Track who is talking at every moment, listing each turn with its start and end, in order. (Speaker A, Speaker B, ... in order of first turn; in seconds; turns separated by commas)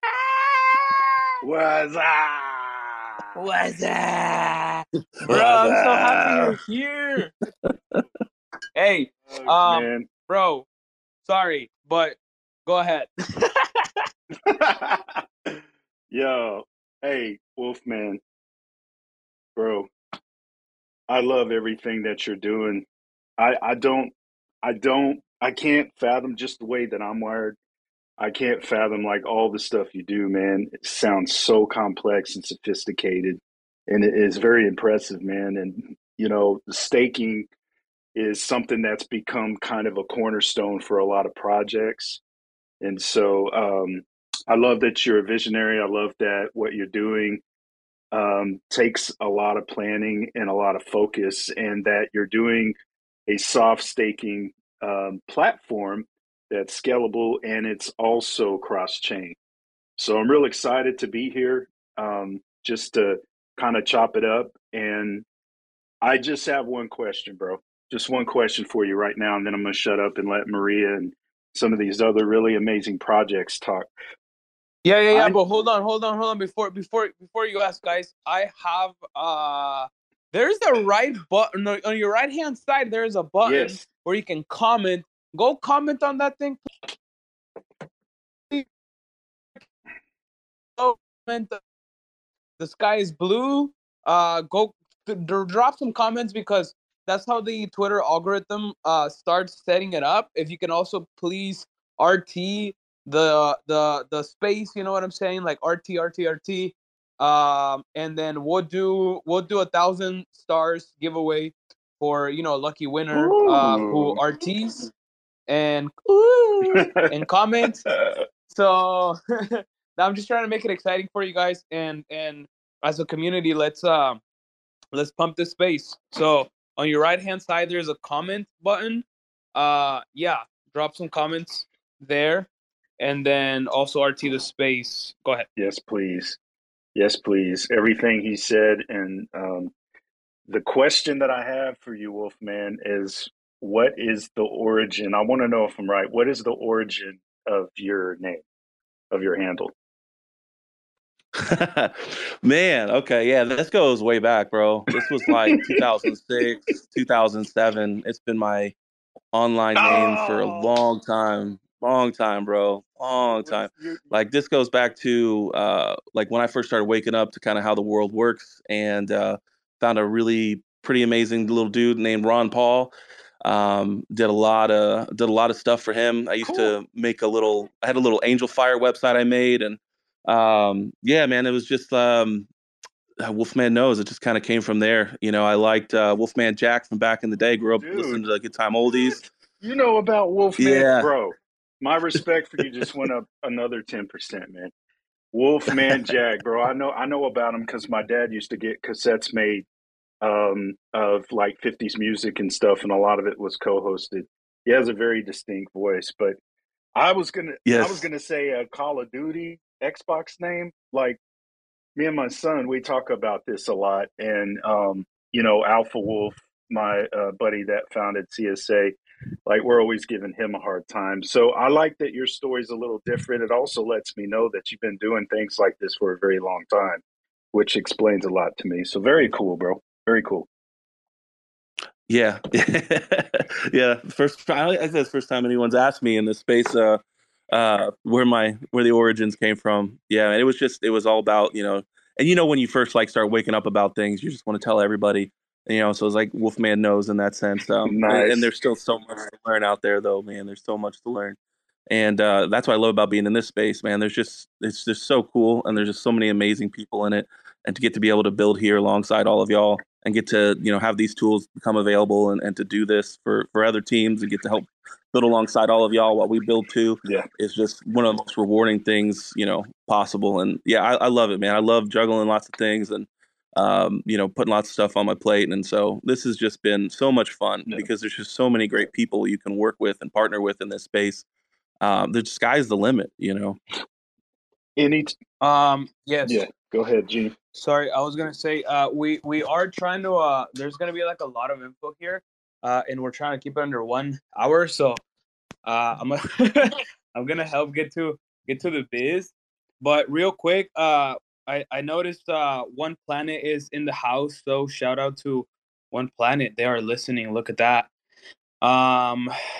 Speaker A: 0.5-0.9, Speaker B: 1.4-3.0, Speaker A: 3.3-7.3, Speaker C: 5.2-6.4, Speaker A: 8.7-10.7, Speaker B: 9.3-10.1, Speaker A: 11.2-13.8, Speaker B: 14.4-15.2, Speaker B: 16.1-18.2, Speaker B: 19.6-19.9, Speaker B: 21.1-22.9, Speaker B: 23.4-27.6, Speaker B: 28.2-37.5, Speaker B: 38.1-42.2, Speaker B: 42.8-47.4, Speaker B: 48.1-52.7, Speaker B: 53.3-59.4, Speaker B: 60.0-65.2, Speaker B: 66.0-73.9, Speaker A: 74.8-86.6, Speaker B: 83.4-83.8, Speaker A: 90.8-91.6, Speaker A: 92.6-114.9, Speaker B: 113.1-114.2, Speaker A: 115.5-117.9, Speaker B: 116.7-117.0, Speaker B: 117.9-118.1, Speaker A: 118.5-124.2, Speaker A: 124.9-132.5, Speaker A: 133.0-135.5, Speaker B: 135.6-136.4, Speaker B: 136.9-139.7, Speaker B: 140.5-148.4, Speaker B: 149.1-149.7, Speaker C: 151.3-158.7, Speaker B: 154.9-155.9, Speaker C: 159.3-172.9, Speaker B: 159.8-160.7, Speaker B: 163.4-164.0, Speaker C: 173.4-182.5, Speaker B: 176.4-176.7, Speaker C: 183.2-189.2, Speaker B: 187.8-188.2, Speaker B: 189.6-194.7, Speaker C: 190.6-191.1, Speaker B: 195.3-199.7, Speaker B: 200.2-206.4, Speaker B: 206.9-211.2, Speaker C: 207.7-208.1, Speaker B: 211.9-227.0, Speaker B: 227.5-230.5, Speaker C: 232.1-251.3, Speaker B: 247.8-248.5, Speaker C: 251.9-281.2, Speaker C: 281.8-283.6, Speaker B: 284.8-285.1, Speaker A: 285.4-286.4, Speaker B: 286.2-287.3, Speaker A: 287.5-295.0, Speaker A: 295.6-307.9, Speaker A: 308.6-309.3